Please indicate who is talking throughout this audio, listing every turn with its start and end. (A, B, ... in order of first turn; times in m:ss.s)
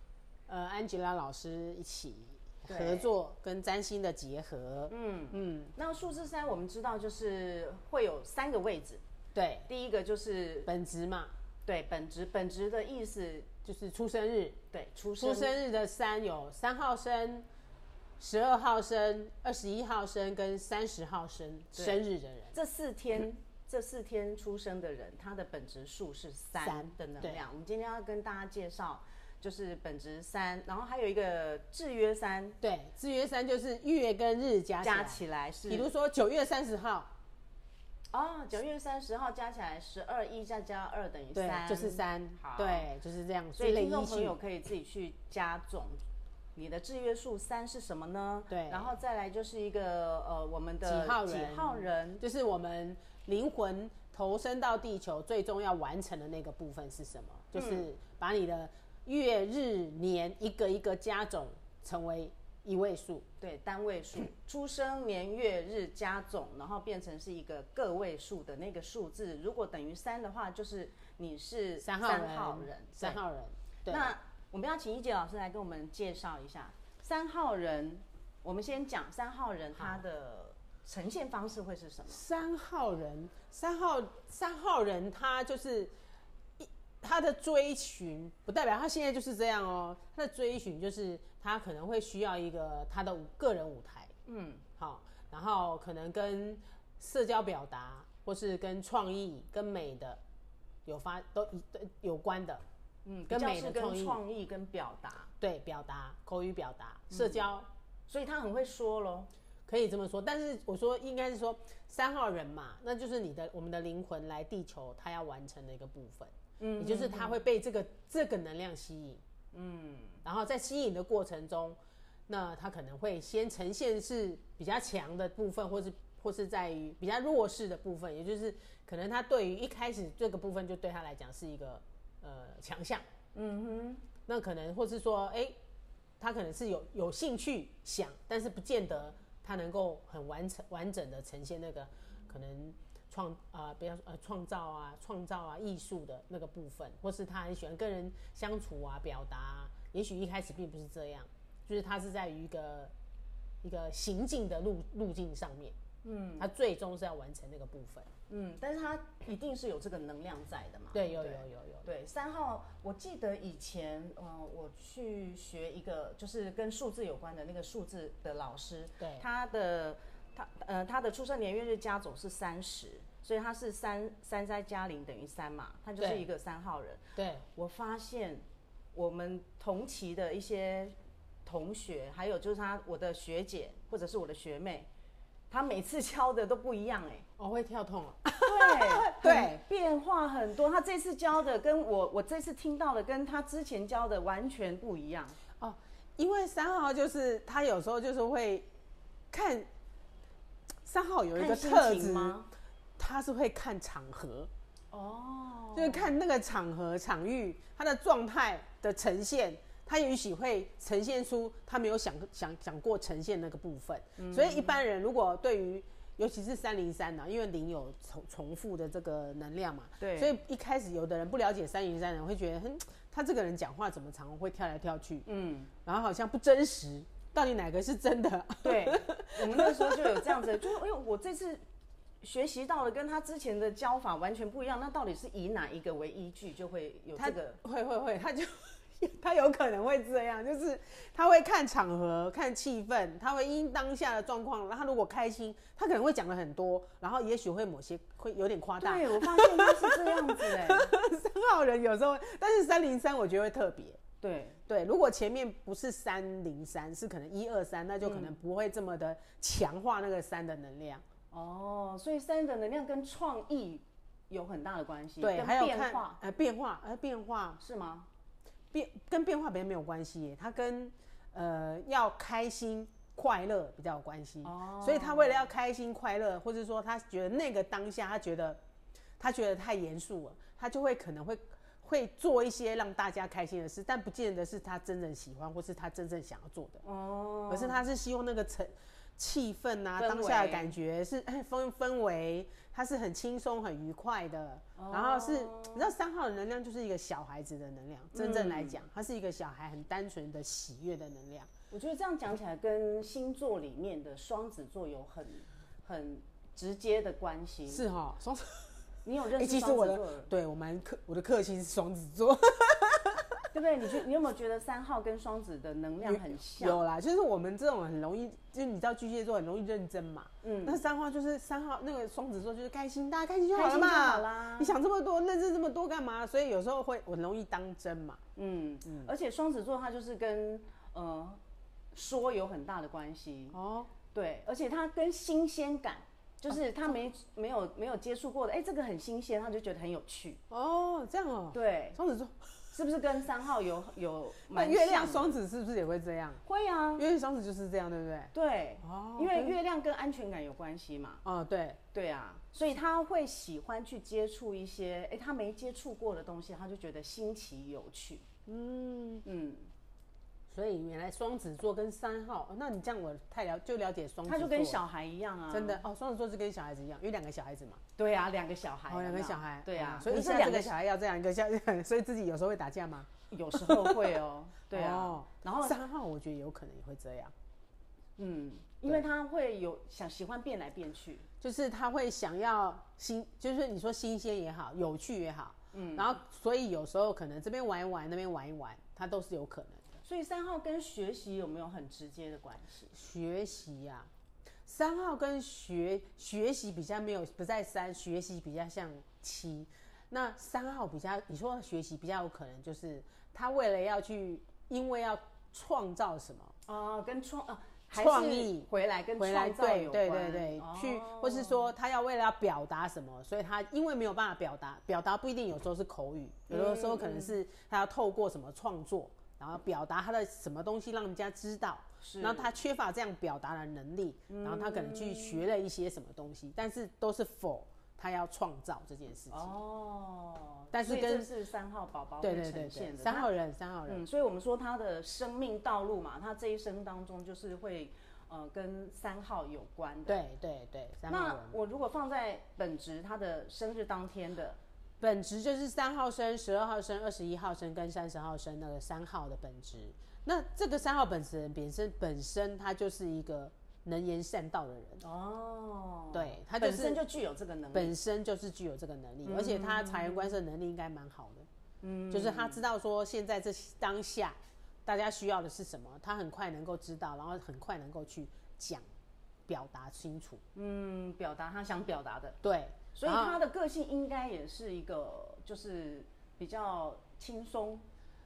0:00.5-0:05.7 A
0:02.7-0:03.1 B
0:04.9-0:09.0 B
0:09.3-0:09.7 A
0:09.7-0:10.7 B
0:10.7-0:11.3 A
0:11.6-0:13.5 B
0:13.6-0:14.6 A
0:14.7-0:15.5 B
0:15.2-0:17.5 A
0:18.2-0:22.5 A
0:21.8-0:22.0 B
0:22.5-0:32.6 B
0:26.6-0:27.4 A
0:32.6-0:37.1 A
0:34.8-0:35.9 B
0:38.1-0:42.9 B
0:41.3-0:44.3 A
0:43.5-0:46.0 B
0:46.5-0:52.2 B
0:48.5-0:48.9 A
0:50.8-1:03.3 A
0:57.5-0:57.9 B
1:03.4-1:13.2 B
1:11.8-1:14.1 A
1:13.9-1:22.2 B
1:19.8-1:20.0 A
1:22.1-1:25.9 A
1:26.6-1:34.1 A
1:34.3-1:34.6 B
1:34.8-1:40.2 A
1:40.8-1:42.6 A
1:43.0-1:45.3 B
1:43.3-1:44.2 A
1:45.4-1:47.7 A
1:47.1-1:47.5 B
1:48.1-1:49.3 B
1:49.7-1:59.2 A
1:56.6-1:57.4 B
1:59.5-2:00.2 B
2:00.2-2:13.0 A
2:13.3-2:14.0 B
2:14.3-2:15.5 A
2:16.2-2:32.9 A
2:33.6-2:35.8 A
2:36.0-2:36.5 B
2:36.4-2:38.1 A
2:38.3-3:04.9 B
2:40.9-2:41.9 A
2:49.0-2:49.2 A
2:56.0-2:56.2 A
2:57.2-2:57.4 A
3:05.5-3:07.2 B
3:07.4-3:09.6 A
3:08.4-3:15.4 B
3:15.6-3:18.7 A
3:19.3-3:19.7 A
3:20.8-3:22.4 A
3:21.3-3:22.5 B
3:23.0-3:24.5 A
3:24.9-3:26.2 B
3:25.7-3:45.2 A
3:34.2-3:34.8 B
3:40.0-3:40.4 B
3:45.2-3:45.7 B
3:45.8-3:50.8 A
3:48.6-3:51.6 B
3:52.2-3:57.6 B
3:57.2-4:14.0 A
4:08.8-4:10.9 B
4:14.2-4:14.6 B
4:14.7-4:21.0 A
4:18.0-4:18.4 B
4:21.3-4:26.2 B
4:25.2-4:27.6 A
4:27.6-4:28.1 B
4:28.7-4:38.6 A
4:34.4-4:35.5 B
4:39.2-4:46.8 A
4:46.8-4:47.8 B
4:47.5-5:01.5 A
4:50.0-4:50.7 B
4:54.8-4:55.9 B
4:58.1-4:58.8 B
5:01.7-5:07.8 B
5:07.7-5:08.7 A
5:09.0-5:10.3 B
5:09.4-5:13.4 A
5:13.5-5:16.8 B
5:16.0-5:28.2 A
5:20.4-5:20.8 B
5:23.5-5:24.7 B
5:28.4-5:31.4 B
5:31.9-5:33.6 B
5:33.5-5:33.9 A
5:34.1-5:40.4 B
5:40.5-5:42.5 A
5:41.5-5:42.0 B
5:42.7-5:45.4 B
5:44.5-5:46.4 A
5:46.4-5:47.0 B
5:47.0-5:48.3 A
5:48.3-5:51.2 B
5:48.8-5:49.6 A
5:51.2-5:51.8 A
5:51.9-5:58.3 B
5:58.4-5:59.2 A
5:59.2-5:59.7 B
6:00.5-6:04.8 A
6:04.2-6:05.8 B
6:05.5-6:07.8 A
6:08.0-6:10.7 B
6:08.9-6:14.1 A
6:13.3-6:15.8 B
6:14.7-6:17.3 A
6:18.2-6:21.3 B
6:21.4-6:30.0 A
6:25.7-6:26.2 B
6:30.0-6:32.9 B
6:32.9-6:34.1 A
6:34.6-6:46.6 A
6:46.6-6:51.7 B
6:47.9-7:09.5 A
6:56.5-6:57.4 B
7:02.0-7:02.5 B
7:04.3-7:05.4 B
7:09.3-7:13.3 B
7:10.7-7:11.3 A
7:12.2-7:14.0 A
7:13.9-7:20.2 B
7:20.1-7:21.6 A
7:21.1-7:24.6 B
7:25.0-7:35.0 A
7:35.0-7:37.9 B
7:36.1-7:37.0 A
7:37.7-7:41.5 A
7:39.2-7:40.4 B
7:41.8-7:42.6 B
7:42.1-7:48.8 A
7:49.5-7:50.4 A
7:50.5-7:52.4 B
7:52.4-7:53.4 A
7:52.9-7:57.8 B